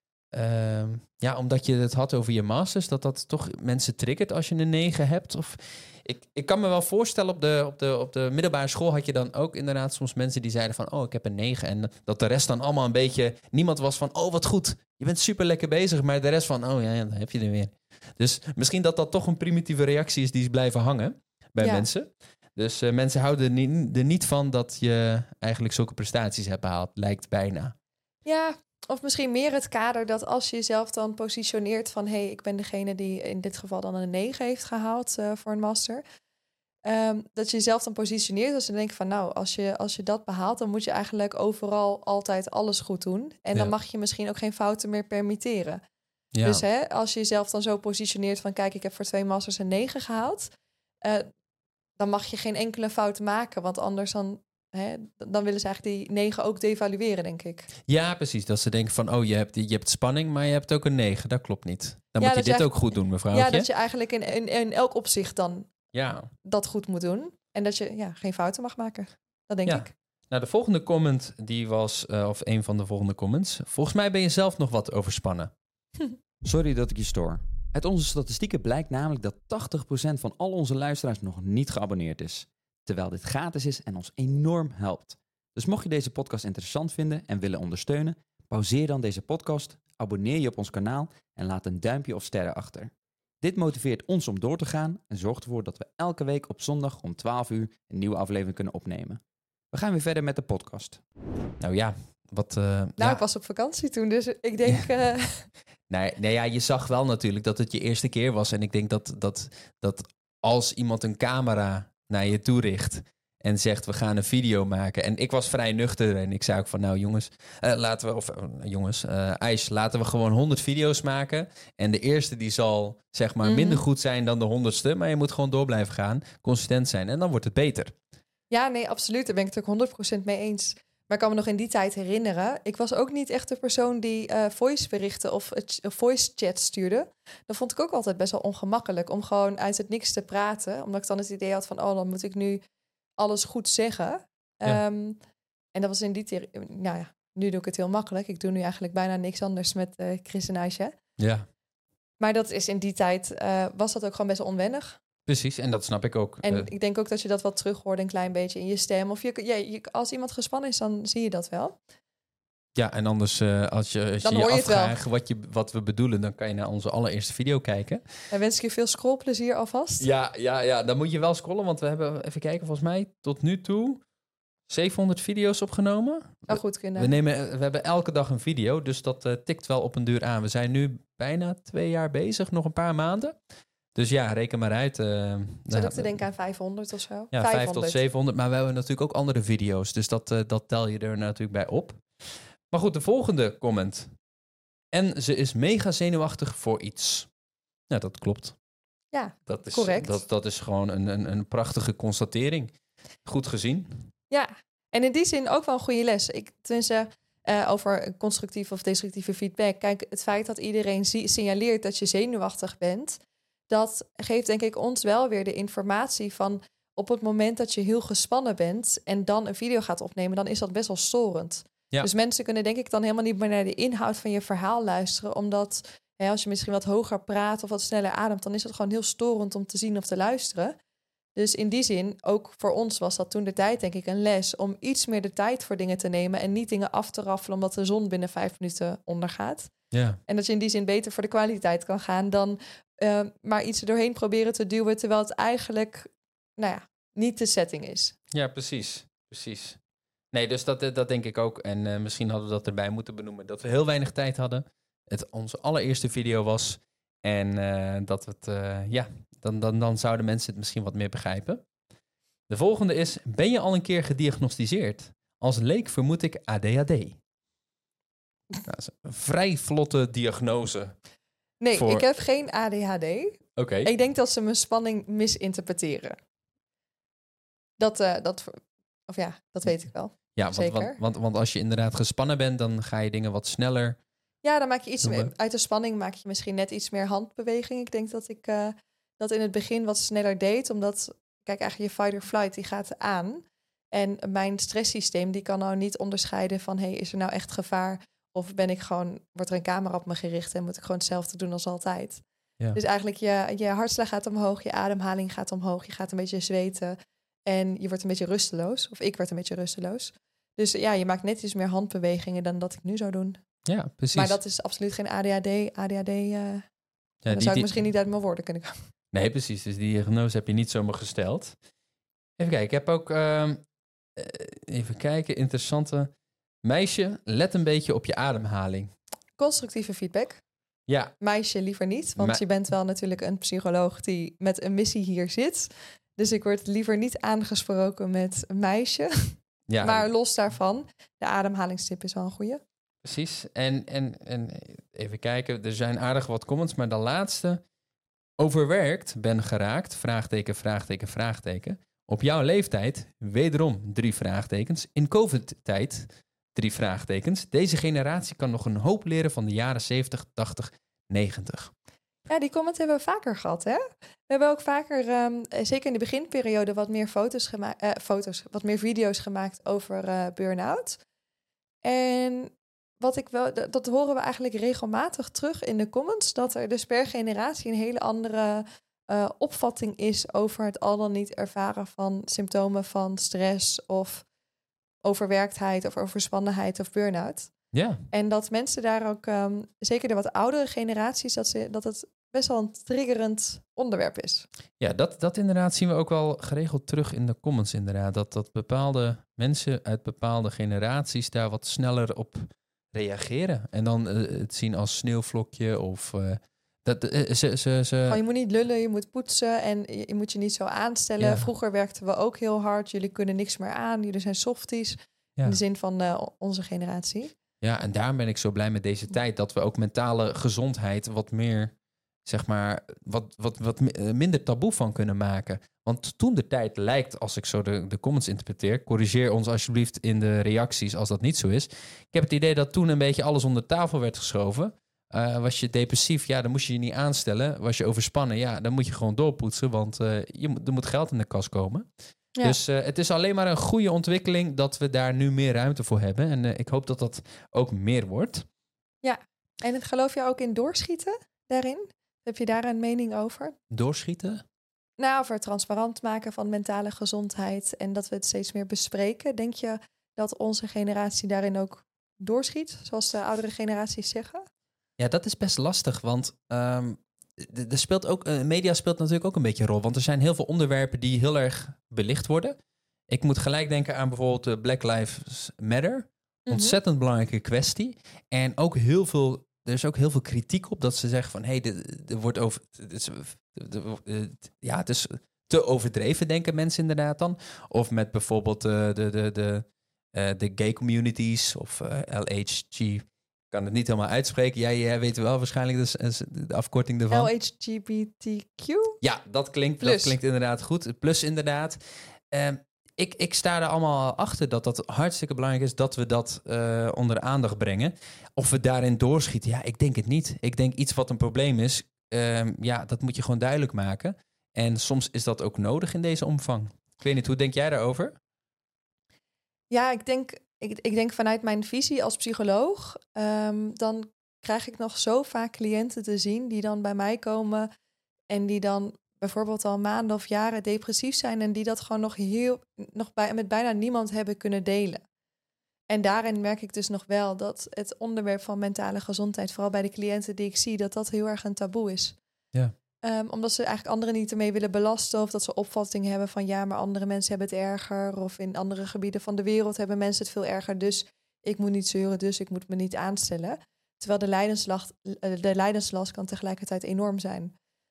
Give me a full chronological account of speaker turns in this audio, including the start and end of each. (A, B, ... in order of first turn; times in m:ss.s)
0:00.3-0:27.7 A
0:21.6-0:21.9 B
0:28.2-0:36.0 B
0:36.8-0:45.8 B
0:46.3-0:46.6 A
0:46.4-0:50.5 B
0:51.0-0:51.3 B
0:52.0-0:57.7 B
0:57.9-1:03.7 A
1:02.2-1:05.7 B
1:05.9-1:06.3 A
1:06.4-1:09.9 B
1:09.6-1:15.5 A
1:16.4-1:39.2 C
1:39.7-1:41.0 C
1:41.6-1:43.2 A
1:43.0-1:45.5 B
1:45.9-2:07.9 A
2:03.4-2:03.8 B
2:08.5-2:22.6 B
2:23.2-2:25.2 B
2:25.7-2:30.9 B
2:31.2-2:31.5 A
2:32.2-2:35.0 B
2:35.2-2:36.7 A
2:36.4-2:41.8 B
2:42.8-2:48.0 A
2:44.2-2:45.0 B
2:48.3-2:50.1 B
2:50.0-2:54.0 A
2:54.7-3:03.3 A
2:56.5-2:57.1 B
3:03.9-3:06.2 A
3:05.7-3:08.0 B
3:07.3-3:12.0 A
3:12.7-3:14.1 A
3:14.9-3:17.3 A
3:17.9-3:18.6 A
3:19.1-3:20.2 B
3:19.4-3:22.7 A
3:23.2-3:24.0 A
3:24.3-3:50.8 B
3:51.4-3:59.7 B
3:59.9-4:00.2 A
4:00.3-4:08.1 B
4:08.3-4:09.8 A
4:10.3-4:21.6 A
4:22.5-4:27.2 A
4:28.6-4:31.0 A
4:31.6-4:36.2 B
4:31.7-4:32.0 A
4:33.6-4:33.9 A
4:37.8-4:41.0 B
4:40.3-4:44.0 A
4:44.4-5:02.2 B
4:45.0-4:45.3 A
5:02.7-5:13.4 B
5:13.6-5:14.4 A
5:14.1-5:16.6 B
5:17.2-5:17.7 A
5:17.3-5:18.8 B
5:19.1-5:21.5 A
5:22.4-5:23.6 A
5:24.2-5:26.1 A
5:26.6-5:28.9 A
5:29.4-5:30.4 B
5:30.9-5:31.1 A
5:31.2-5:42.6 B
5:32.2-5:32.4 A
5:39.7-5:40.1 A
5:43.0-5:47.6 A
5:48.4-6:01.7 A
6:02.3-6:11.0 B
6:11.8-6:24.2 B
6:25.0-6:27.5 B
6:27.7-6:28.0 A
6:28.1-6:34.4 B
6:34.8-6:48.2 A
6:48.1-6:57.3 B
6:51.2-6:51.5 A
6:57.6-7:01.7 A
7:02.2-7:21.9 A
7:22.4-7:28.4 A
7:29.0-7:33.6 B
7:33.7-7:34.4 A
7:35.0-7:44.4 B
7:45.0-7:52.6 A
7:53.1-8:17.3 A
7:56.5-7:56.8 B
8:17.1-8:19.0 B
8:19.0-8:21.8 A
8:19.8-8:20.1 B
8:22.3-8:38.1 A
8:39.7-8:47.7 B
8:48.3-8:55.0 B
8:55.9-9:02.2 B
9:03.0-9:17.5 B